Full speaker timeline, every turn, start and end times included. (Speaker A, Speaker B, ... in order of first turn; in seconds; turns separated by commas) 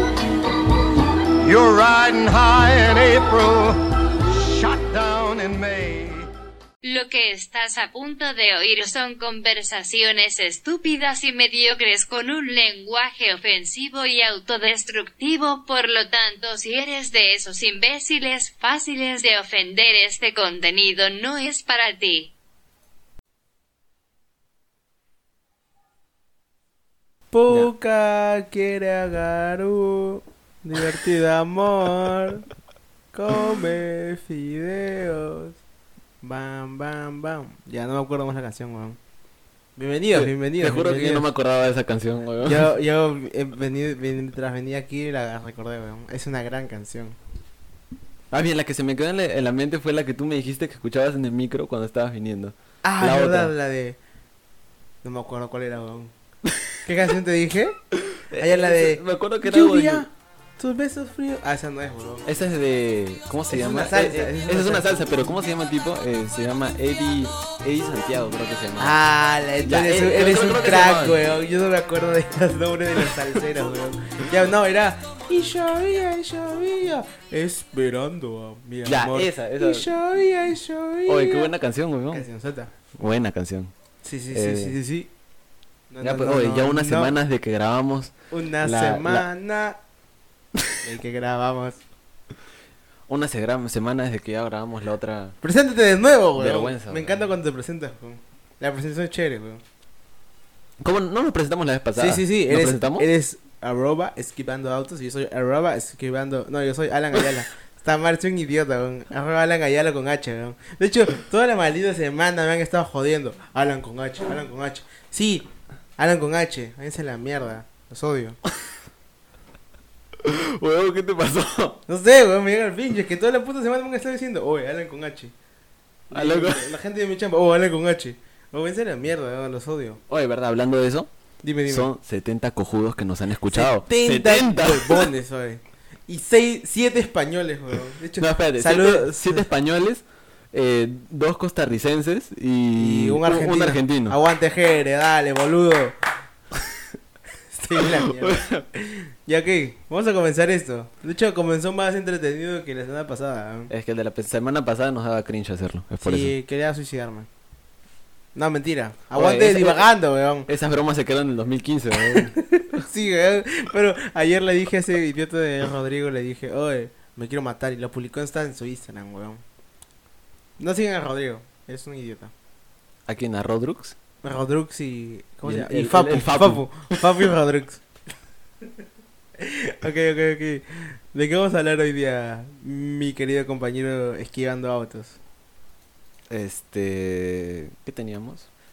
Speaker A: 1.4-6.3, Speaker B: 6.8-22.3, Speaker C: 27.3-32.4, Speaker C: 33.1-35.6, Speaker C: 36.2-39.0, Speaker C: 39.8-41.3, Speaker D: 40.1-42.7, Speaker C: 42.4-47.1, Speaker D: 48.3-53.5, Speaker C: 52.8-54.0, Speaker C: 55.0-56.1, Speaker C: 56.8-57.8, Speaker D: 57.9-60.0, Speaker C: 58.3-62.2, Speaker D: 62.2-69.0, Speaker C: 63.5-65.3, Speaker C: 68.8-81.5, Speaker D: 69.6-71.2, Speaker D: 78.8-79.9, Speaker D: 81.1-82.3, Speaker C: 82.1-82.7, Speaker D: 83.0-83.7, Speaker C: 84.0-85.1, Speaker D: 84.3-84.8, Speaker C: 85.9-87.1, Speaker D: 86.0-89.2, Speaker C: 88.3-89.8, Speaker C: 90.8-91.8, Speaker D: 93.1-95.3, Speaker C: 95.4-99.6, Speaker D: 96.3-97.2, Speaker D: 100.8-103.1, Speaker C: 102.0-115.5, Speaker C: 116.0-118.4, Speaker D: 120.2-121.8, Speaker C: 121.9-125.3, Speaker C: 126.1-130.0, Speaker D: 126.1-126.7, Speaker D: 130.1-131.1, Speaker C: 131.4-131.9, Speaker D: 131.7-135.1, Speaker C: 133.5-139.5, Speaker D: 138.2-144.2, Speaker C: 142.8-145.9, Speaker C: 147.5-153.7, Speaker D: 147.8-148.6, Speaker D: 153.7-156.3, Speaker C: 156.0-157.3, Speaker C: 158.3-160.5, Speaker D: 159.1-159.9, Speaker D: 160.5-162.8, Speaker C: 162.1-169.4, Speaker C: 170.6-172.3, Speaker D: 173.1-173.9, Speaker C: 174.2-177.8, Speaker D: 175.4-177.2, Speaker C: 179.4-185.2, Speaker D: 186.3-188.5